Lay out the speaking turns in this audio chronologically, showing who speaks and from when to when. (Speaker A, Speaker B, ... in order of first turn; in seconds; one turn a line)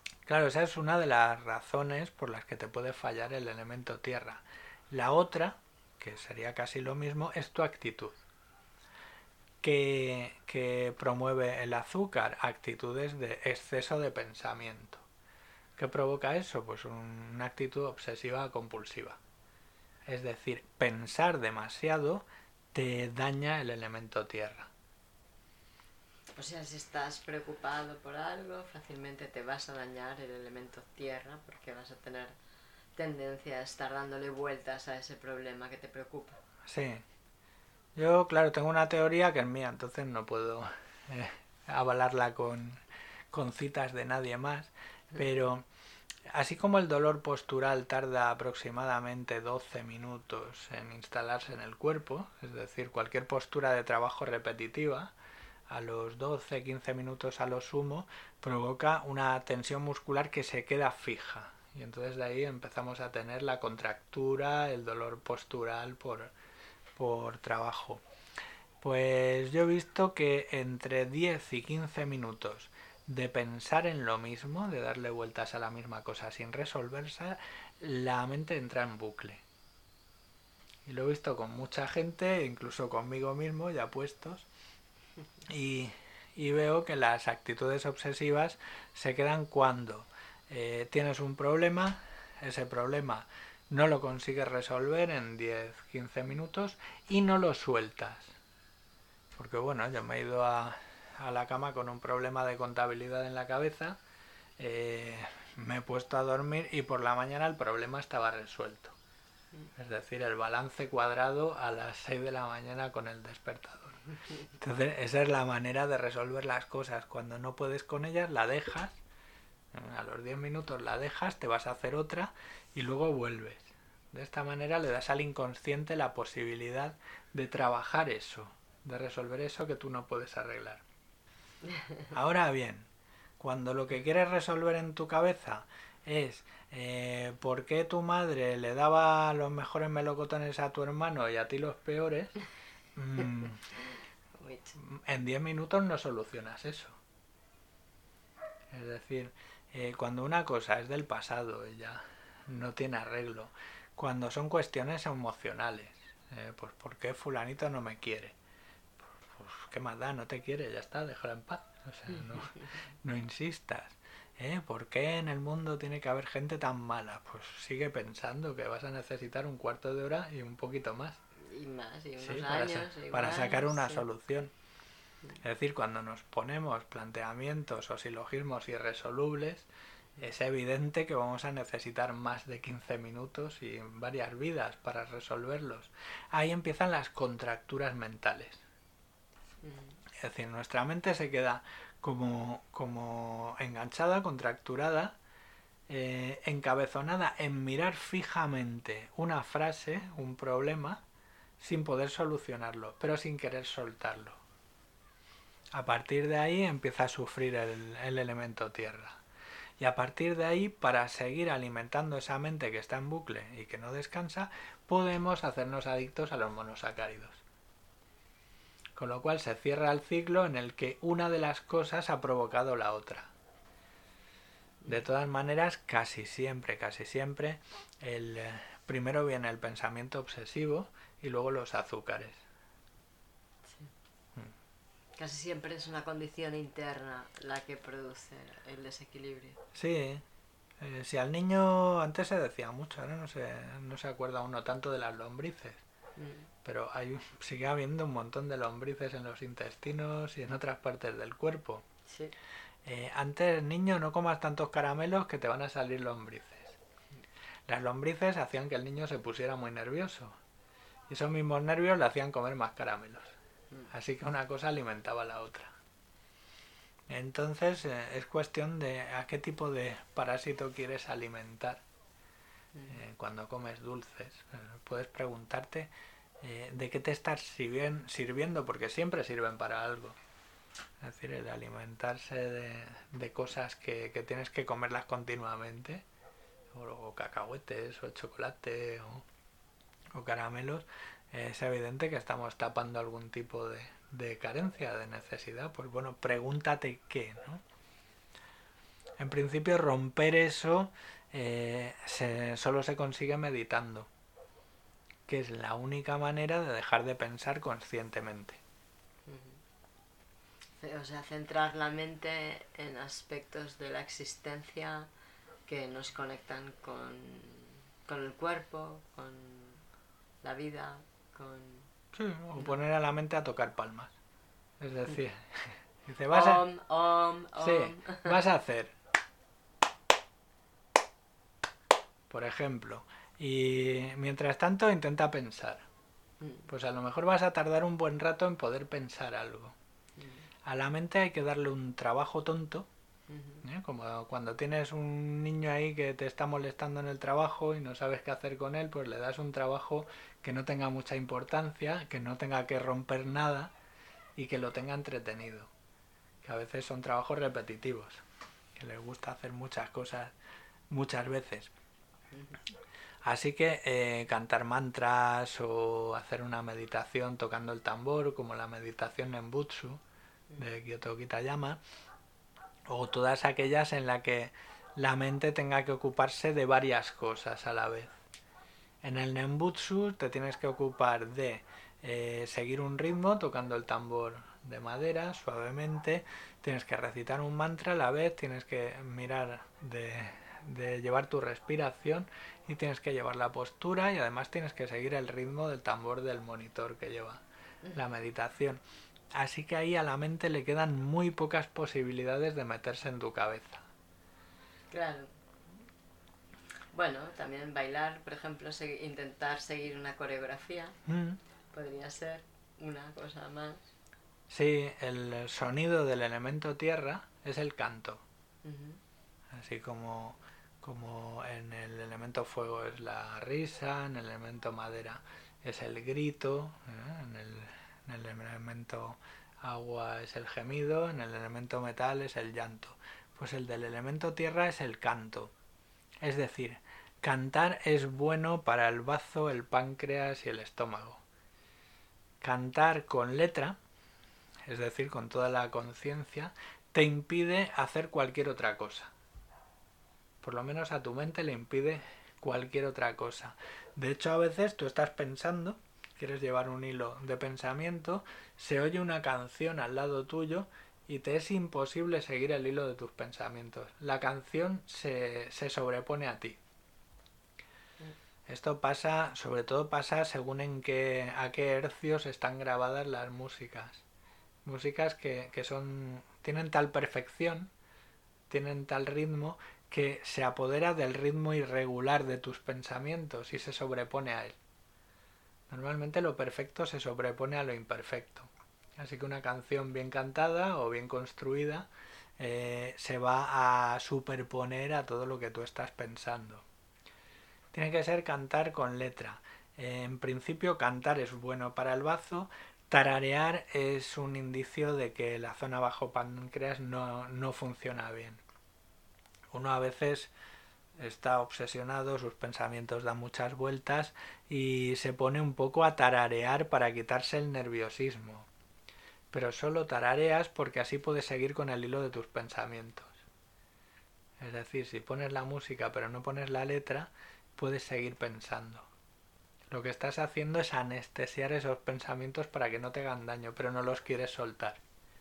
Speaker A: 0.2-8.2
Speaker A: 9.6-15.1
Speaker A: 15.8-19.2
Speaker A: 20.1-24.7
Speaker B: 26.4-32.4
Speaker B: 33.0-36.4
Speaker A: 36.6-37.1
Speaker A: 38.0-45.6
Speaker A: 46.3-55.1
Speaker A: 55.7-66.3
Speaker A: 67.0-68.0
Speaker A: 68.8-79.4
Speaker A: 80.8-84.5
Speaker A: 85.5-98.3
Speaker A: 99.4-104.0
Speaker A: 104.6-108.9
Speaker A: 109.8-114.0
Speaker A: 114.5-119.0
Speaker A: 119.7-130.8
Speaker A: 132.1-132.9
Speaker A: 133.4-142.4
Speaker A: 142.9-143.6
Speaker B: 144.4-144.8
Speaker A: 144.8-147.0
Speaker A: 148.7-158.3
Speaker A: 159.0-171.2
Speaker B: 171.4-174.1
Speaker A: 172.2-174.5
Speaker A: 175.4-179.7
Speaker A: 180.2-188.6
Speaker B: 189.6-190.0
Speaker A: 190.2-195.2
Speaker A: 195.9-201.0
Speaker A: 201.6-204.4
Speaker A: 205.7-209.2
Speaker A: 209.8-217.4
Speaker A: 218.9-223.3
Speaker A: 224.9-232.4
Speaker B: 235.2-239.6
Speaker A: 239.7-240.2
Speaker A: 240.8-245.8
Speaker B: 246.2-246.5
Speaker A: 246.6-251.9
Speaker B: 252.1-252.3
Speaker A: 252.8-256.8
Speaker A: 257.7-260.4
Speaker A: 261.1-263.3
Speaker A: 263.9-265.7
Speaker A: 267.1-271.8
Speaker A: 272.9-280.2
Speaker A: 281.0-286.1
Speaker A: 286.7-289.2
Speaker A: 290.1-297.6
Speaker A: 299.2-304.1
Speaker A: 305.3-308.6
Speaker B: 309.3-309.6
Speaker B: 310.8-315.1
Speaker B: 315.6-319.8
Speaker B: 320.4-321.9
Speaker A: 322.1-324.1
Speaker A: 324.8-326.6
Speaker B: 326.3-328.4
Speaker A: 327.6-328.9
Speaker A: 332.3-335.9
Speaker B: 336.4-336.7
Speaker A: 336.7-339.8
Speaker B: 340.2-340.5
Speaker A: 340.6-342.9
Speaker B: 343.3-343.6
Speaker A: 343.6-353.7
Speaker A: 354.4-355.7
Speaker A: 356.4-358.2
Speaker A: 358.8-360.3
Speaker A: 360.9-361.7
Speaker B: 362.3-362.6
Speaker A: 363.2-370.0
Speaker A: 370.6-371.8
Speaker A: 372.9-378.1
Speaker A: 379.0-397.4
Speaker A: 397.9-398.8
Speaker A: 399.3-403.9
Speaker B: 404.9-405.3
Speaker B: 406.9-411.0
Speaker A: 411.1-411.4
Speaker B: 411.7-413.9
Speaker A: 414.5-418.2
Speaker B: 418.6-419.0
Speaker A: 419.5-435.5
Speaker A: 436.2-441.2
Speaker A: 442.4-443.8
Speaker A: 444.7-449.1
Speaker A: 450.4-466.6
Speaker A: 468.5-474.0
Speaker A: 474.6-477.7
Speaker A: 478.5-484.6
Speaker A: 485.7-496.6
Speaker A: 497.7-508.4
Speaker A: 509.5-510.3
Speaker A: 511.0-518.5
Speaker A: 519.3-523.2
Speaker A: 524.4-528.9
Speaker A: 529.7-534.8